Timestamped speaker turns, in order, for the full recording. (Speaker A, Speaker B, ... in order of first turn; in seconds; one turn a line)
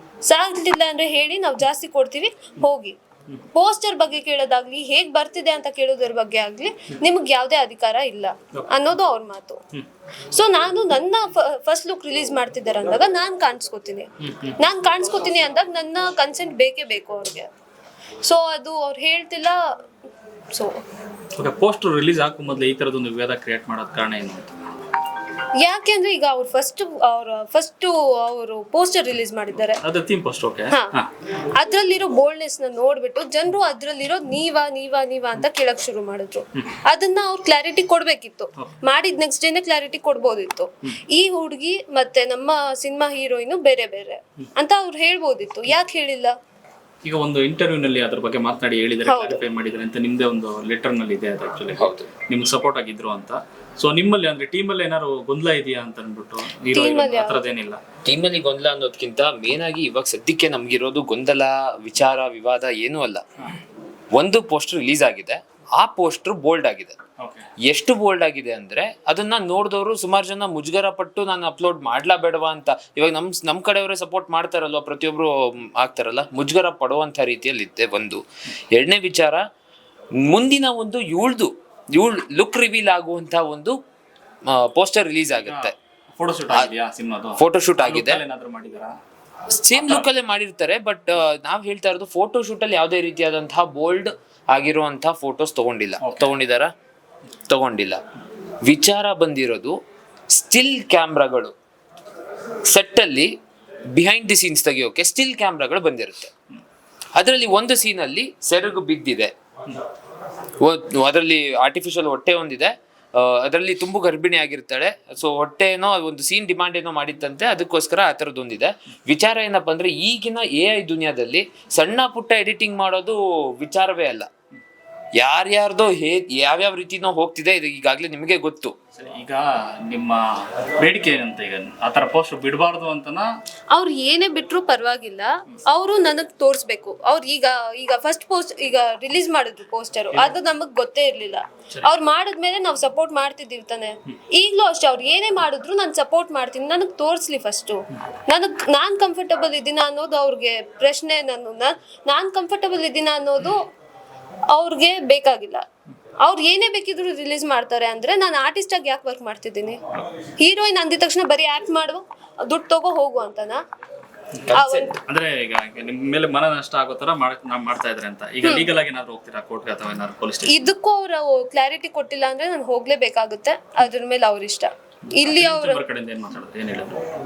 Speaker A: 0.2-3.0
Speaker A: 3.5-9.6
Speaker A: 10.3-17.5
Speaker B: 14.3-14.6
Speaker A: 18.2-19.8
Speaker A: 20.5-20.8
Speaker B: 21.4-24.5
Speaker A: 25.6-29.8
Speaker B: 29.8-31.1
Speaker A: 30.7-46.3
Speaker B: 47.0-57.8
Speaker A: 49.0-49.4
Speaker C: 51.8-52.0
Speaker A: 56.7-57.4
Speaker C: 58.0-63.2
Speaker C: 64.1-67.0
Speaker B: 67.2-67.5
Speaker C: 67.6-79.4
Speaker C: 80.2-83.8
Speaker C: 84.5-85.7
Speaker B: 85.5-88.9
Speaker C: 87.4-88.2
Speaker C: 89.5-96.7
Speaker B: 89.7-90.0
Speaker B: 96.0-96.3
Speaker C: 97.5-98.0
Speaker C: 98.6-99.8
Speaker C: 100.3-101.5
Speaker C: 102.6-103.3
Speaker C: 103.9-106.3
Speaker C: 107.1-109.3
Speaker C: 110.6-124.3
Speaker C: 125.2-128.8
Speaker B: 128.9-133.3
Speaker A: 133.7-153.6
Speaker A: 154.5-155.6
Speaker A: 156.2-159.8
Speaker A: 160.4-163.6
Speaker B: 164.4-170.7
Speaker C: 164.5-164.9
Speaker A: 164.5-165.0
Speaker A: 168.4-168.7
Speaker A: 170.4-175.8
Speaker B: 175.2-177.0